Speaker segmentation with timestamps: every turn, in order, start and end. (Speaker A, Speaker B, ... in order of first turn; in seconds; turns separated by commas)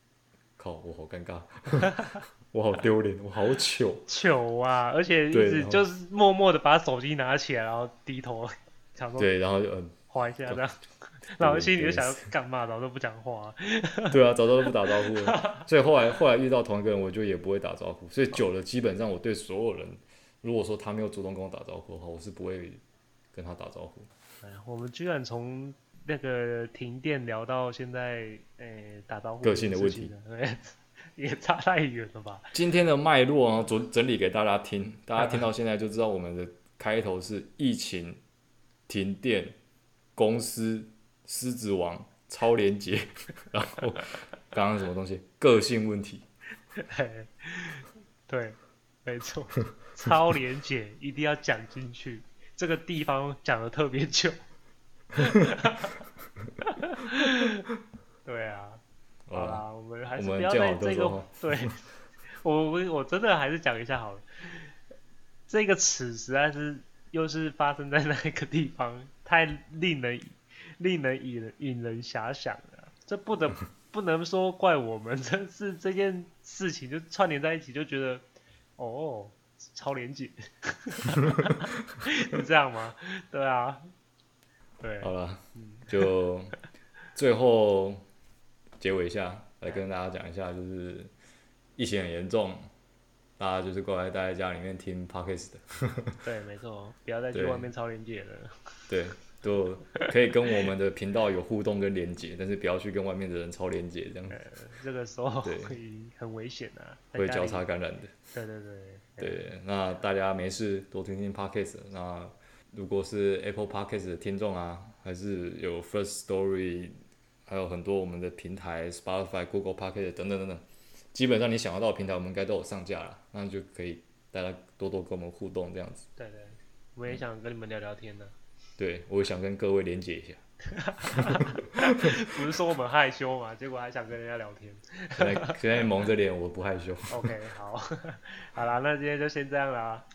Speaker A: 0.6-4.0, Speaker B: 4.1-9.3, Speaker A: 5.3-5.8, Speaker A: 9.2-10.6, Speaker B: 10.1-10.8, Speaker B: 11.3-15.7, Speaker A: 11.4-12.2, Speaker A: 14.1-22.8, Speaker A: 23.3-24.1, Speaker B: 24.4-32.5, Speaker A: 29.4-30.1, Speaker A: 32.5-38.2, Speaker A: 38.9-39.5, Speaker A: 40.1-46.3, Speaker B: 46.8-54.4, Speaker B: 55.1-56.0, Speaker B: 56.6-57.6, Speaker B: 58.2-58.8, Speaker A: 59.3-59.6, Speaker B: 59.3-61.8, Speaker A: 60.2-61.7, Speaker B: 62.4-64.7, Speaker B: 65.5-78.2, Speaker B: 78.8-83.9, Speaker B: 84.8-86.1, Speaker A: 85.0-86.5, Speaker A: 87.1-88.0, Speaker A: 88.8-91.1, Speaker A: 91.8-92.7, Speaker A: 93.4-96.2, Speaker B: 96.2-98.8, Speaker A: 97.3-97.7, Speaker A: 98.9-104.4, Speaker B: 104.3-107.6, Speaker A: 105.4-105.7, Speaker A: 107.2-108.1, Speaker B: 108.3-109.5, Speaker A: 109.2-116.9, Speaker A: 117.5-126.1, Speaker B: 126.2-128.3, Speaker A: 128.8-130.4, Speaker B: 130.7-135.6, Speaker A: 131.1-132.2, Speaker A: 135.2-137.3, Speaker B: 137.1-140.0